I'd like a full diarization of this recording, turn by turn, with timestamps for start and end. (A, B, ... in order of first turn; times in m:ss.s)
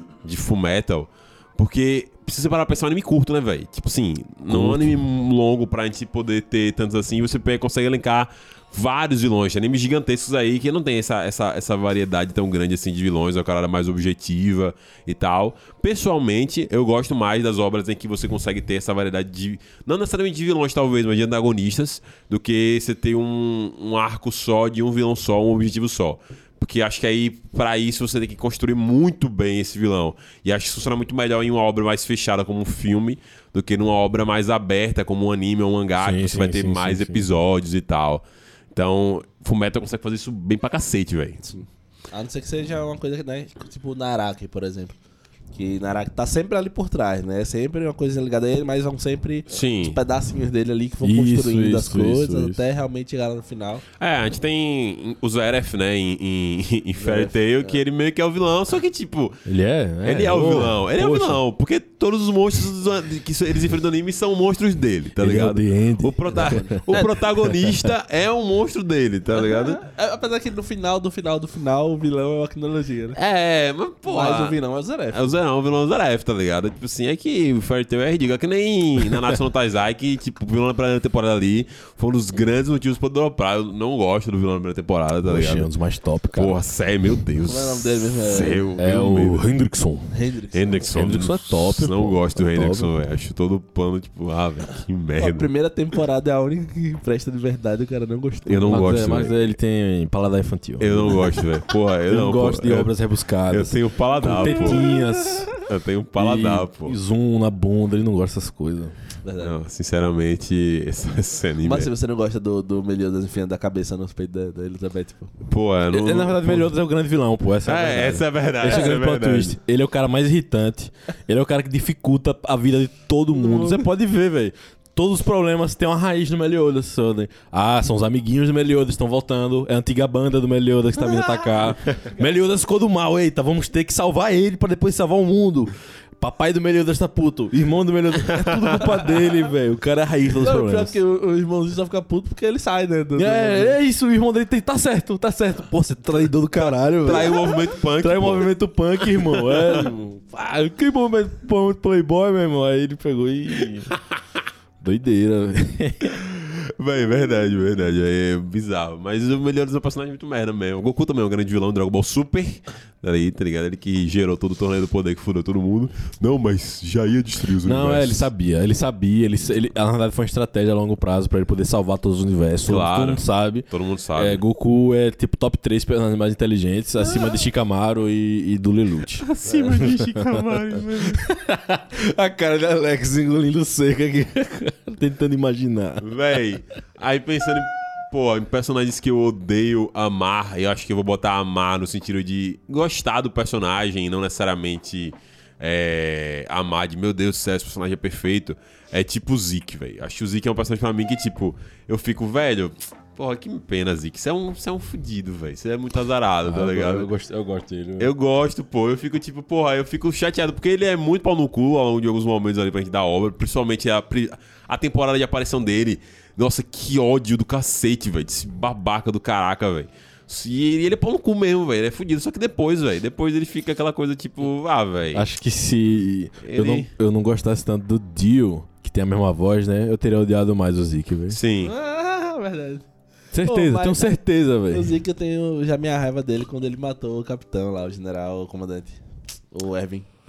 0:00.2-0:41.6 A
0:04.5-0:05.0 B
0:36.0-0:37.3 B
0:42.1-0:45.0 C
0:45.5-0:53.8 C
0:49.5-0:50.0 A
0:51.0-0:52.6 B
0:54.0-0:59.4 A
0:57.0-0:57.8 C
0:59.5-1:01.4 B
1:00.0-1:09.8 A
1:05.2-1:07.9 B
1:06.4-1:07.2 C
1:09.3-1:13.2 C
1:13.2-1:14.6 A
1:14.0-1:15.3 C
1:15.1-1:25.7 A
1:25.2-1:26.6 B
1:26.3-1:29.5 A
1:27.4-1:28.6 C
1:28.8-1:30.2 B
1:30.1-1:30.9 C
1:30.5-1:35.5 A
1:30.9-1:32.9 B
1:35.2-1:38.8 C
1:38.5-1:39.5 A
1:38.7-1:41.4 B
1:40.8-1:42.9 A
1:42.1-1:45.5 B
1:43.5-1:44.9 A
1:44.7-1:45.4 C
1:45.6-1:47.0 A
1:46.2-1:49.0 B
1:49.2-1:49.6 C
1:49.4-1:51.9 A
1:51.6-1:55.3 C
1:55.5-1:56.7 A
1:55.9-2:21.0 B
1:57.6-1:59.6 A
1:58.7-1:59.0 C
2:03.3-2:03.8 C
2:18.4-2:18.8 A
2:20.3-2:23.8 C
2:23.2-2:33.9 B
2:26.6-2:27.3 C
2:27.0-2:29.9 A
2:34.8-2:36.2 B
2:36.2-2:48.3 A
2:47.6-3:00.5 B
2:52.7-2:54.4 A
2:59.2-3:01.2 A
3:01.1-3:06.0 B
3:06.0-3:27.1 A
3:26.4-3:28.1 B
3:28.0-3:45.3 A
3:45.1-3:51.4 B
3:46.4-3:46.9 A
3:51.3-3:51.7 A
3:51.6-3:52.8 C
3:53.3-3:55.0 B
3:53.4-3:59.0 C
3:59.5-4:00.1 C